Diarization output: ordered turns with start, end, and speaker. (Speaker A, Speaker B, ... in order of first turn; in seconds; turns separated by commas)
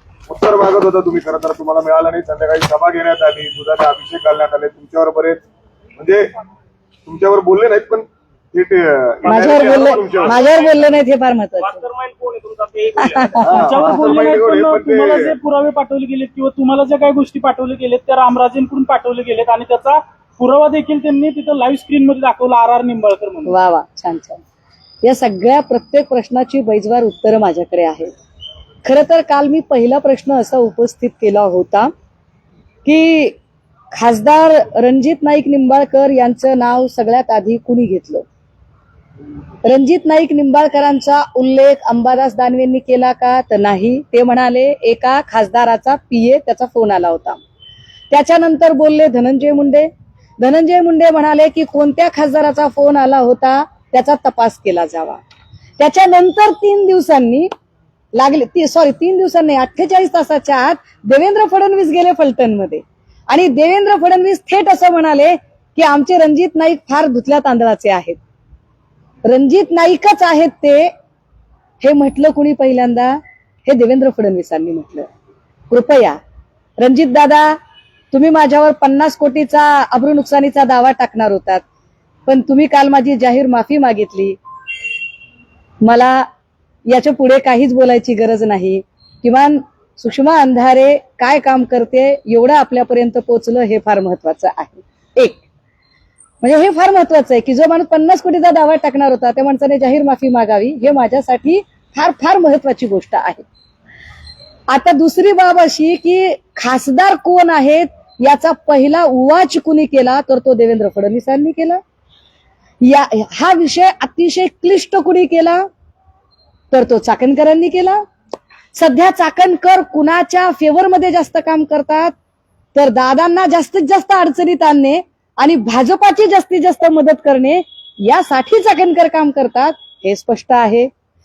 Speaker A: 0.3-5.4, Speaker A: 6.0-6.3, Speaker A: 7.0-10.4, Speaker B: 9.3-11.8, Speaker C: 9.3-10.8, Speaker C: 11.6-13.6, Speaker B: 13.0-14.0, Speaker A: 13.4-15.3, Speaker D: 13.4-23.5, Speaker B: 23.4-24.4, Speaker B: 25.0-28.1, Speaker B: 28.8-31.9, Speaker B: 32.8-33.4, Speaker B: 33.9-38.2, Speaker B: 39.6-47.4, Speaker B: 48.1-49.9, Speaker B: 50.4-55.2, Speaker B: 55.8-57.5, Speaker B: 58.1-68.2, Speaker B: 69.2-70.9, Speaker B: 71.8-75.1, Speaker B: 75.7-76.2, Speaker B: 76.8-77.5, Speaker B: 78.1-81.6, Speaker B: 82.3-84.4, Speaker B: 85.8-86.2, Speaker B: 86.9-95.4, Speaker B: 96.4-103.4, Speaker B: 104.7-111.8, Speaker B: 112.8-115.6, Speaker B: 116.7-118.0, Speaker B: 118.7-122.1, Speaker B: 122.7-130.9